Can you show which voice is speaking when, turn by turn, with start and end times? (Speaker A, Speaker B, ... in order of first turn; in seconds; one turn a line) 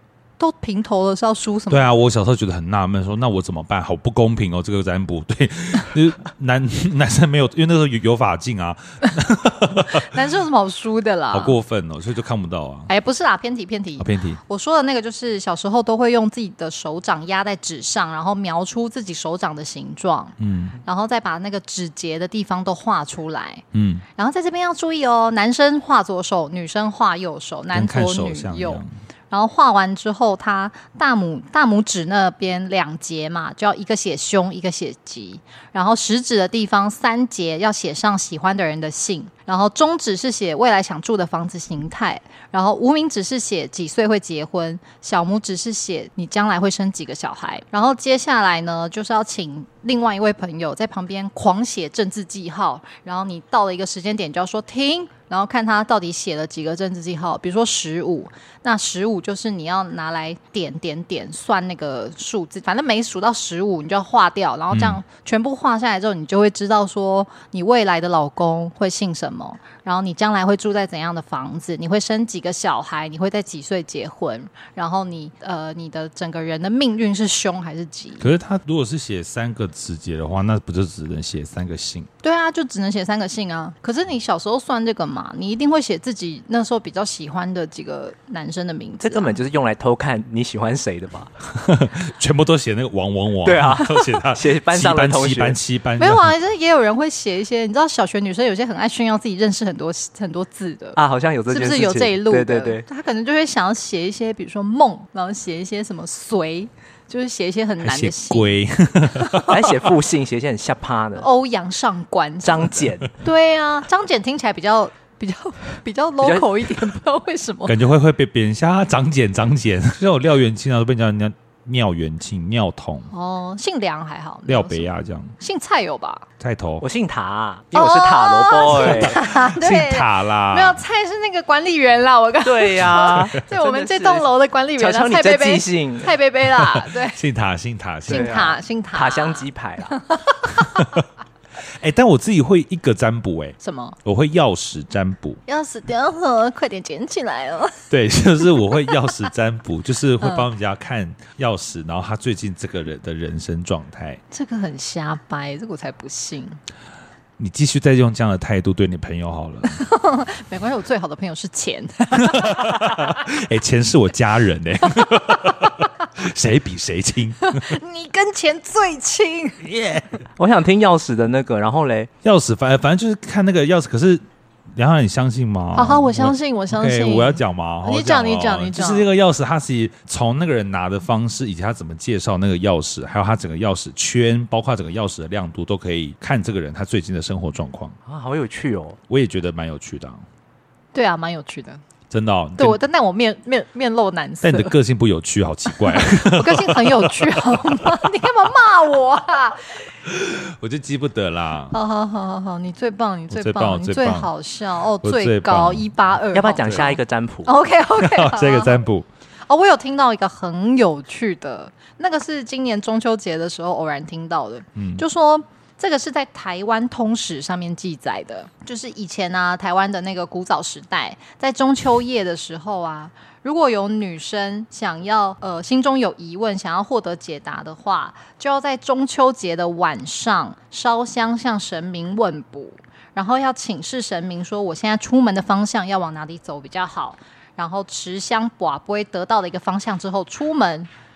Speaker A: 0.4-1.9
Speaker B: 1.7-10.2
Speaker A: 9.7-11.6
Speaker B: 11.3-12.9
Speaker A: 12.9-23.6
Speaker B: 14.0-14.4
Speaker B: 20.4-20.8
Speaker B: 23.7-24.1
Speaker A: 24.2-78.3
Speaker B: 27.7-28.9
Speaker B: 64.7-65.0
Speaker B: 78.2-82.1
Speaker A: 82.2-89.4
Speaker C: 89.0-91.3
Speaker B: 91.5-96.3
Speaker C: 93.4-95.6
Speaker A: 96.0-101.0
Speaker C: 101.0-102.8
Speaker A: 101.5-108.6
Speaker B: 107.8-109.6
Speaker A: 109.2-109.5
Speaker C: 109.5-111.3
Speaker A: 111.2-117.8
Speaker C: 112.4-113.1
Speaker C: 116.2-116.5
Speaker B: 117.7-123.1
Speaker A: 123.1-126.3
Speaker B: 124.5-125.4
Speaker B: 126.4-126.8
Speaker C: 126.8-129.2
Speaker A: 127.7-137.2
Speaker B: 128.8-130.8
Speaker C: 132.4-136.1
Speaker B: 136.6-138.4
Speaker C: 138.1-139.9
Speaker A: 138.1-141.0
Speaker B: 140.6-141.1
Speaker B: 141.8-145.4
Speaker A: 143.6-144.0
Speaker A: 145.5-147.8
Speaker B: 147.9-154.2
Speaker A: 148.5-148.9
Speaker A: 150.2-150.5
Speaker A: 154.3-156.6
Speaker B: 157.4-159.8
Speaker A: 159.7-163.2
Speaker B: 162.1-167.7
Speaker A: 165.1-165.8
Speaker A: 167.4-169.7
Speaker B: 169.6-170.2
Speaker C: 170.4-172.1
Speaker B: 172.2-174.2
Speaker B: 174.7-188.0
Speaker A: 175.8-179.1
Speaker C: 188.1-189.0
Speaker B: 189.1-190.2
Speaker A: 190.9-191.8
Speaker B: 192.1-192.8
Speaker A: 192.6-194.8
Speaker B: 194.4-198.1
Speaker A: 195.7-199.8
Speaker B: 200.1-201.8
Speaker A: 201.7-208.8
Speaker B: 203.3-204.3
Speaker B: 205.0-205.9
Speaker C: 206.3-207.5
Speaker B: 208.0-209.1
Speaker A: 209.5-240.9
Speaker B: 214.8-215.0